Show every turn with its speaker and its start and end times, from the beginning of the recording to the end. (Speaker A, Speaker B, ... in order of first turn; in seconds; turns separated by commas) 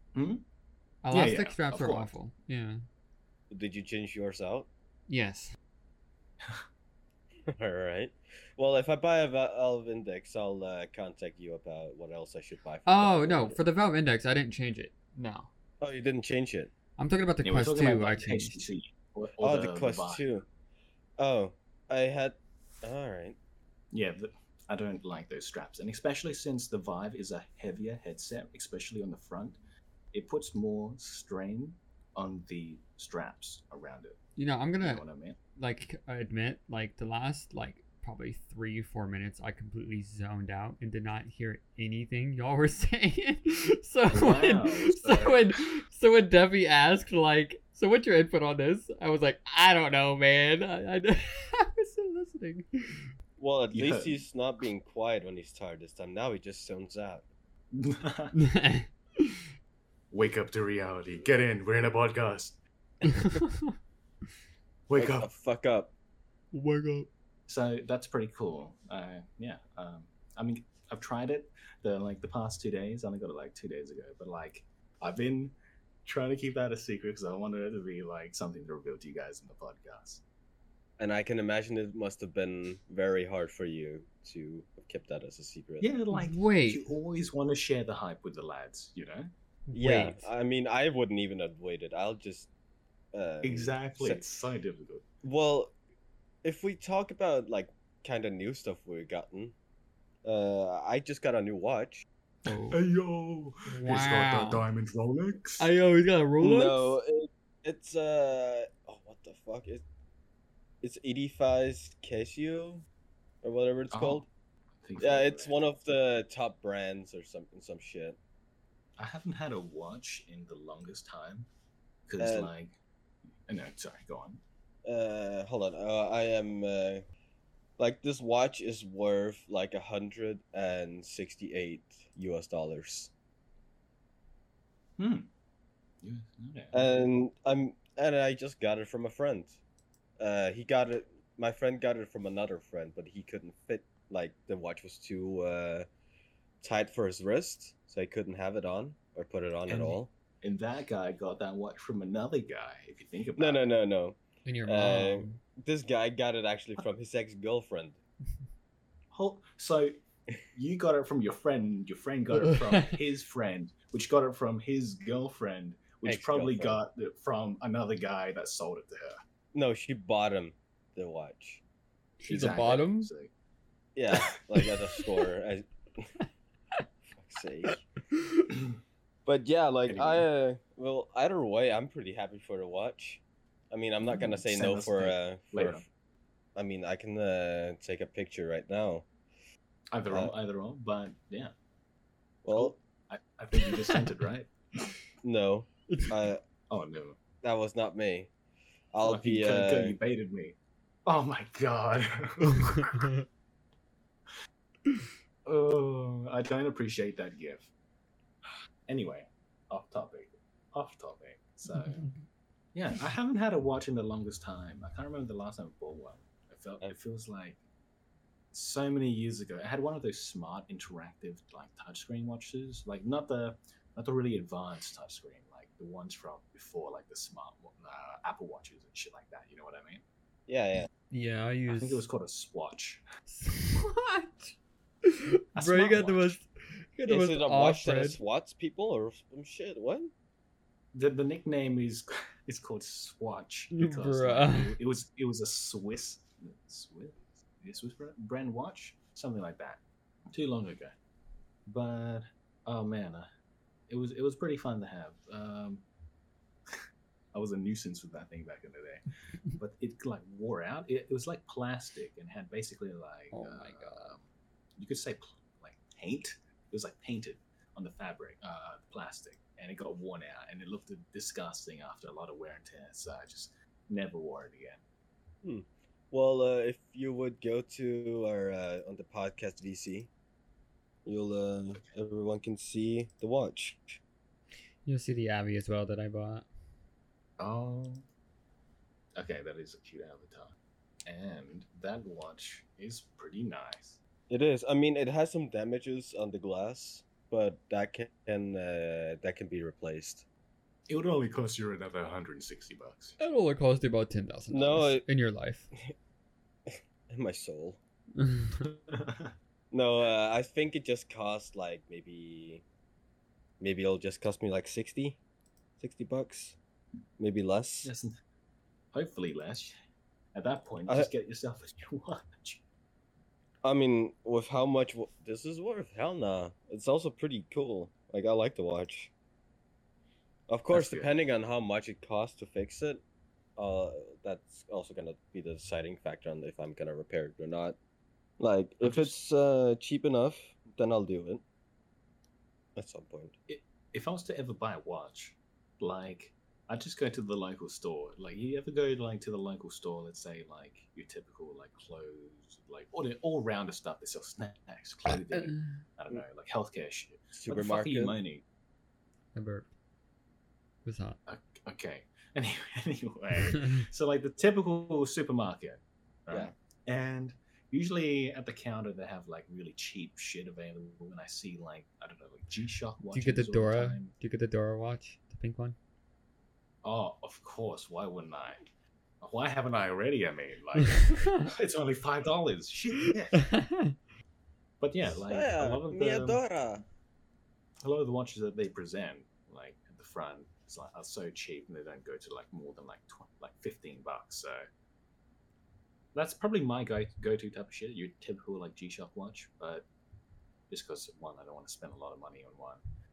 Speaker A: 0.1-0.4, Speaker B: 1.0-2.8, Speaker A: 1.1-2.1, Speaker C: 3.5-4.7, Speaker B: 5.1-5.5, Speaker C: 7.5-13.6, Speaker B: 12.9-15.5, Speaker C: 15.8-16.7, Speaker B: 17.0-18.6, Speaker A: 17.4-20.3, Speaker C: 19.4-20.4, Speaker C: 21.2-23.4, Speaker A: 23.9-29.6, Speaker A: 30.1-34.2, Speaker B: 34.4-35.0, Speaker A: 34.8-35.4, Speaker B: 35.5-53.1, Speaker A: 44.1-45.4, Speaker C: 53.4-57.2, Speaker A: 53.7-54.1, Speaker A: 57.7-58.3, Speaker B: 58.3-59.5, Speaker A: 60.1-62.6, Speaker B: 63.0-63.7, Speaker A: 64.9-65.3, Speaker C: 64.9-65.9, Speaker B: 66.5-67.1, Speaker A: 67.5-80.2, Speaker C: 81.0-85.9, Speaker A: 85.8-89.3, Speaker B: 86.1-86.8, Speaker B: 89.7-90.3, Speaker C: 89.7-92.5, Speaker C: 93.1-94.2, Speaker A: 93.4-95.0, Speaker C: 95.2-95.8, Speaker C: 96.4-99.5, Speaker C: 100.2-102.0, Speaker B: 102.5-102.8, Speaker A: 102.7-105.7, Speaker B: 103.7-104.6, Speaker B: 105.6-106.9, Speaker C: 106.4-109.8, Speaker C: 110.8-112.8, Speaker C: 113.4-114.2, Speaker A: 113.9-114.3, Speaker A: 114.8-115.6, Speaker C: 115.0-118.2, Speaker A: 119.0-121.5, Speaker A: 122.1-122.8, Speaker C: 122.2-122.5, Speaker A: 123.5-124.4, Speaker C: 124.8-127.0, Speaker C: 127.8-133.1, Speaker A: 135.0-135.3, Speaker A: 136.0-137.0, Speaker C: 136.7-139.6, Speaker C: 140.2-145.9, Speaker C: 146.6-150.1, Speaker A: 149.7-153.6, Speaker C: 153.4-158.0, Speaker B: 154.4-155.4, Speaker A: 159.1-159.9, Speaker A: 160.5-169.2, Speaker C: 166.0-166.8, Speaker C: 169.5-171.6, Speaker B: 172.2-173.1, Speaker A: 172.2-173.3, Speaker C: 173.9-176.1, Speaker C: 177.1-177.8, Speaker B: 178.1-178.5, Speaker C: 179.2-185.8, Speaker A: 179.9-180.2, Speaker A: 184.1-185.8, Speaker C: 186.5-189.1, Speaker A: 189.9-191.5, Speaker C: 192.4-192.8, Speaker A: 192.5-194.5, Speaker B: 193.6-194.0, Speaker C: 195.2-196.4, Speaker B: 195.9-196.1, Speaker A: 196.7-197.2, Speaker C: 197.4-198.3, Speaker C: 198.9-199.9, Speaker A: 199.0-203.1, Speaker B: 202.5-203.2, Speaker A: 205.4-207.7, Speaker A: 208.9-212.1, Speaker B: 211.7-212.2, Speaker A: 212.7-217.6, Speaker A: 218.5-230.0, Speaker C: 230.5-230.9, Speaker B: 231.1-232.0, Speaker A: 231.7-233.0, Speaker B: 233.3-238.2, Speaker A: 235.5-236.3, Speaker C: 237.1-240.1, Speaker A: 240.9-249.8, Speaker B: 243.7-244.8, Speaker A: 250.3-250.9, Speaker A: 251.7-253.3, Speaker A: 253.9-255.8, Speaker A: 257.3-274.8, Speaker B: 263.3-264.1, Speaker C: 275.4-280.1, Speaker C: 281.0-284.0, Speaker B: 284.9-286.5, Speaker A: 287.4-288.0, Speaker A: 289.2-290.6, Speaker A: 291.1-294.0, Speaker C: 294.3-300.2, Speaker A: 300.9-303.2, Speaker B: 303.2-305.7, Speaker C: 304.5-305.0, Speaker C: 306.7-307.8, Speaker B: 308.2-308.7, Speaker A: 308.9-309.3, Speaker C: 309.7-312.6, Speaker C: 313.6-315.2, Speaker C: 315.8-316.6, Speaker C: 317.2-317.9, Speaker A: 317.8-318.1, Speaker A: 318.9-319.8, Speaker A: 320.3-322.6, Speaker C: 323.6-329.1, Speaker C: 330.5-333.0, Speaker A: 330.7-331.2, Speaker C: 333.6-337.8, Speaker C: 338.4-341.4, Speaker A: 338.8-339.1, Speaker C: 342.8-343.3, Speaker A: 343.5-358.4, Speaker B: 355.1-355.8, Speaker C: 357.4-358.1, Speaker B: 359.3-359.7, Speaker B: 360.8-361.2, Speaker A: 361.3-374.1, Speaker B: 363.4-363.8, Speaker B: 373.1-375.8, Speaker A: 376.8-378.6, Speaker A: 379.2-383.4, Speaker B: 380.9-381.4, Speaker B: 383.4-383.9, Speaker A: 384.8-386.4, Speaker C: 385.3-386.8, Speaker A: 387.8-394.6, Speaker A: 396.1-399.9, Speaker A: 400.7-402.8